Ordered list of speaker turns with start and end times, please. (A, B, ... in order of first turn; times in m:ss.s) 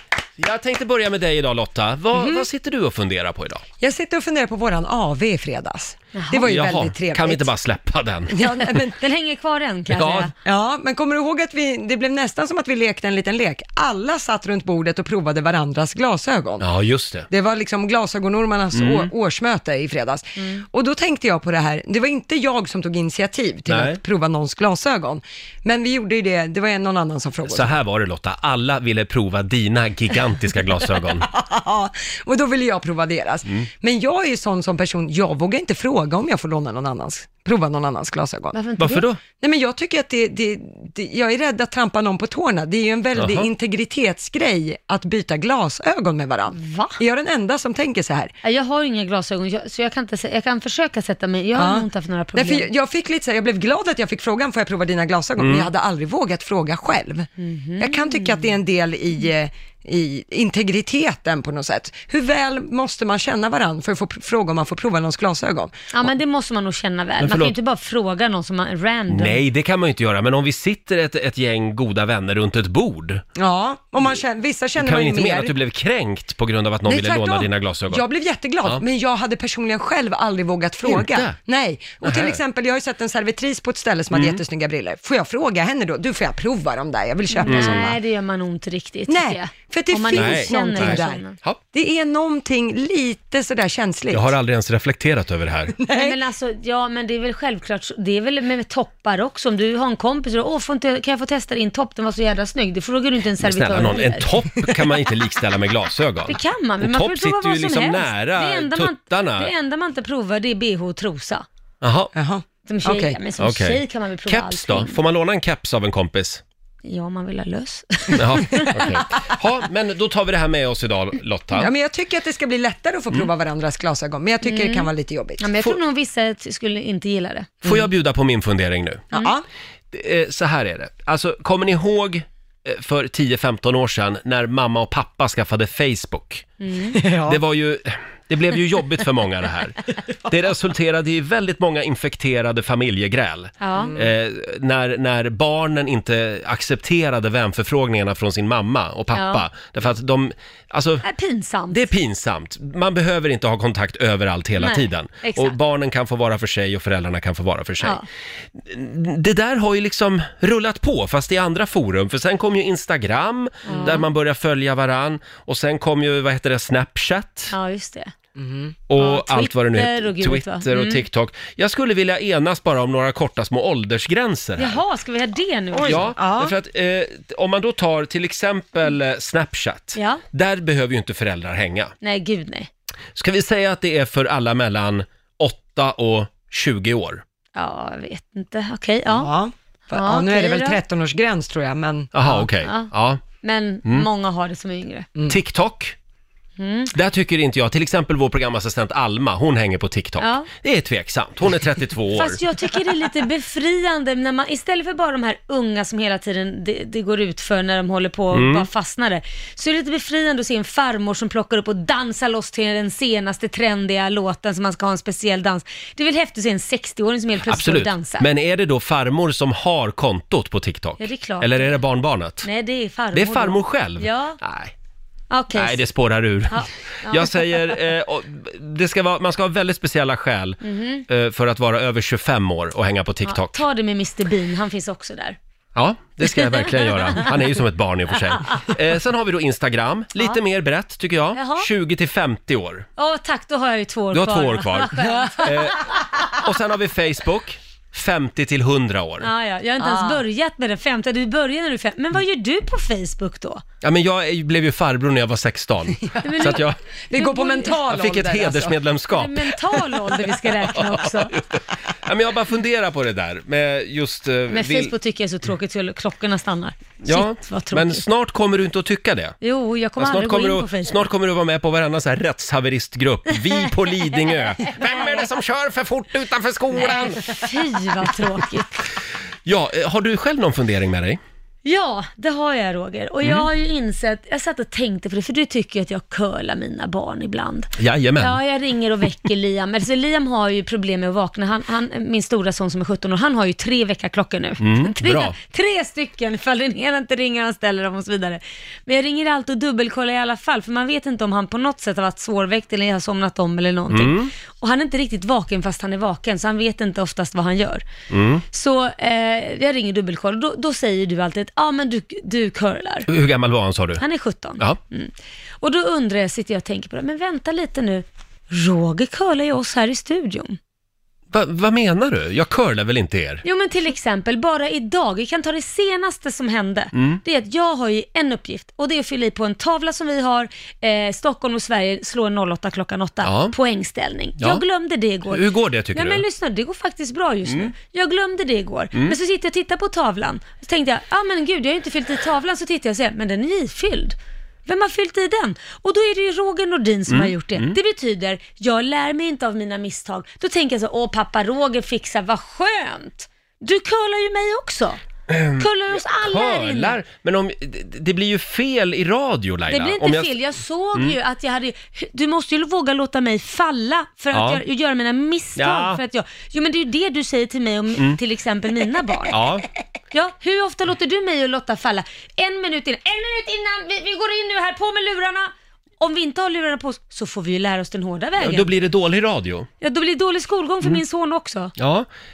0:00.4-0:03.6 A
0:03.8-0:07.5 B
0:06.1-0:06.5 C
0:06.4-0:08.4 A
0:08.3-0:09.0 B
0:08.5-0:10.3 C
0:09.9-0:10.3 A
0:10.4-0:16.7 B
0:16.6-0:17.3 A
0:17.3-0:27.7 B
0:18.7-0:19.1 A
0:20.4-0:20.6 C
0:23.7-0:24.0 A
0:27.4-0:31.3 A
0:30.8-0:38.6 B
0:38.5-0:39.0 C
0:38.8-0:39.2 A
0:39.4-0:48.3 B
0:43.1-0:43.5 A
0:46.5-0:47.0 C
0:48.4-0:52.7 C
0:51.6-0:57.3 B
0:55.4-0:55.7 A
0:57.4-0:58.6 C
0:57.8-1:05.7 B
1:05.9-1:09.4 C
1:07.2-1:07.5 A
1:09.1-1:13.2 A
1:13.4-1:15.5 B
1:14.8-1:18.0 A
1:16.8-1:28.0 B
1:20.8-1:21.4 A
1:22.0-1:22.4 A
1:24.1-1:24.4 A
1:27.3-1:31.4 C
1:27.5-1:27.9 A
1:29.1-1:34.3 B
1:30.1-1:31.6 A
1:34.1-1:35.8 A
1:35.7-1:36.2 B
1:35.9-1:44.3 C
1:43.4-1:49.5 A
1:46.2-1:51.4 C
1:51.8-1:52.1 A
1:52.1-1:53.2 B
1:52.6-1:55.0 C
1:53.4-1:56.4 A
1:56.8-1:58.8 C
1:58.1-2:01.7 A
2:01.5-2:05.5 B
2:04.4-2:07.7 C
2:07.6-2:09.1 A
2:09.1-2:09.4 B
2:09.9-2:16.4 A
2:16.6-2:17.0 C
2:16.9-2:17.4 B
2:17.3-2:31.0 A
2:23.6-2:24.0 C
2:23.8-2:24.1 B
2:29.1-2:29.4 C
2:31.0-2:31.9 C
2:31.7-2:38.0 A
2:34.6-2:35.6 C
2:38.6-2:47.5 A
2:43.6-2:44.0 C
2:43.7-2:44.0 B
2:47.5-2:48.1 C
2:48.4-2:48.7 B
2:48.9-2:54.8 A
2:49.0-2:51.0 C
2:54.6-2:56.1 C
2:55.7-2:56.5 B
2:55.8-3:01.9 A
2:59.9-3:00.2 C
3:02.0-3:02.7 C
3:03.2-3:07.2 A
3:07.5-3:09.3 C
3:09.1-3:12.5 B
3:09.9-3:10.8 C
3:12.1-3:13.2 A
3:12.6-3:12.9 C
3:13.4-3:15.1 C
3:15.3-3:15.9 A
3:16.6-3:16.9 C
3:16.9-3:22.4 A
3:20.2-3:20.5 C
3:22.1-3:38.3 C
3:28.3-3:28.7 A
3:37.4-3:42.5 A
3:41.0-3:41.8 C
3:42.4-3:44.4 C
3:43.1-3:44.7 A
3:45.3-3:45.8 C
3:45.5-3:53.6 A
3:46.5-3:47.7 C
3:50.6-3:51.0 C
3:53.2-3:55.4 C
3:55.7-4:02.8 A
3:56.2-3:57.3 C
4:01.3-4:01.7 C
4:03.0-4:06.0 C
4:04.1-4:09.3 A
4:09.2-4:13.6 C
4:09.8-4:10.2 B
4:13.8-4:16.8 A
4:16.2-4:17.8 C
4:17.1-4:18.8 B
4:17.8-4:24.9 A
4:19.1-4:21.3 C
4:24.5-4:28.0 C
4:27.0-4:29.4 A
4:29.4-4:31.0 C
4:30.0-4:37.4 A
4:34.6-4:35.2 C
4:36.8-4:38.8 C
4:39.4-4:41.2 A
4:41.6-5:07.8 C
4:47.8-4:48.4 A
4:54.6-4:55.3 A
5:03.9-5:04.3 A
5:08.1-5:08.4 A
5:08.5-5:13.1 C
5:13.1-5:14.0 A
5:14.0-5:20.6 C
5:21.3-5:23.4 A
5:23.4-5:55.0 C
5:27.0-5:27.2 A
5:33.2-5:33.5 A
5:34.4-5:34.6 A
5:35.3-5:36.2 A
5:37.5-5:37.7 A
5:47.1-5:47.8 A
5:55.3-6:00.3 A
5:55.6-5:57.0 C
5:59.7-6:09.4 C
6:04.3-6:04.6 A
6:05.6-6:06.0 A
6:09.3-6:09.7 A
6:10.1-6:18.7 C
6:18.4-6:19.7 A
6:19.8-6:21.7 C
6:21.8-6:22.1 A